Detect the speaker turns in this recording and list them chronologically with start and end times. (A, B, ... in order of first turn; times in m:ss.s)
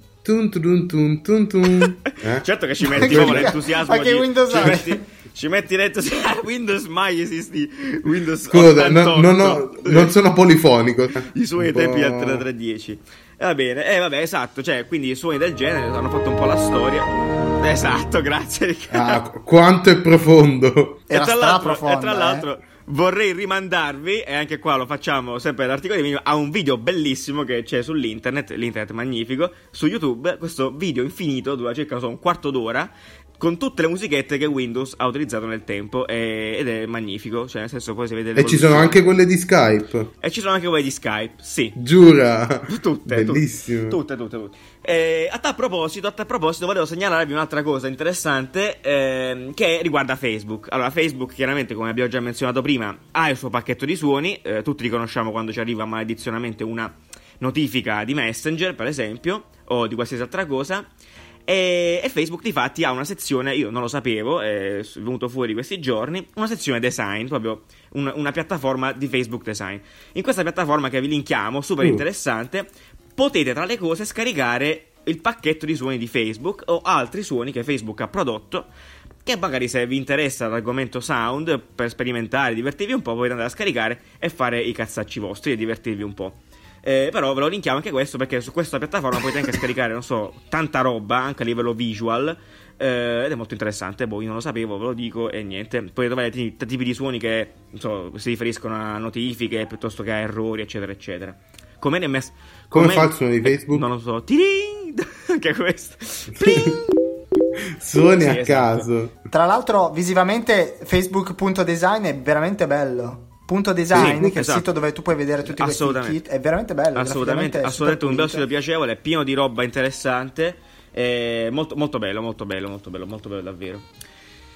0:00.2-0:03.6 A
0:02.4-0:10.2 B
0:03.0-0:05.0 C
0:04.6-0:04.8 A
0:08.5-0:12.5 A
0:11.3-0:19.2 B
0:18.9-0:21.0 A
0:21.1-0:22.5 C
0:21.1-0:39.0 B
0:38.4-0:40.1 A
0:40.2-0:41.8 B
0:41.8-0:44.0 A
0:42.7-1:00.9 B
1:01.5-1:18.7 B
1:19.2-1:46.9 B
1:42.7-1:43.9 A
1:46.4-1:46.8 A
1:47.8-1:49.1 A
1:48.1-1:48.9 B
1:49.3-1:58.5 C
1:53.9-1:54.3 A
1:53.9-1:54.7 B
1:55.5-1:56.2 B
1:56.9-2:03.9 B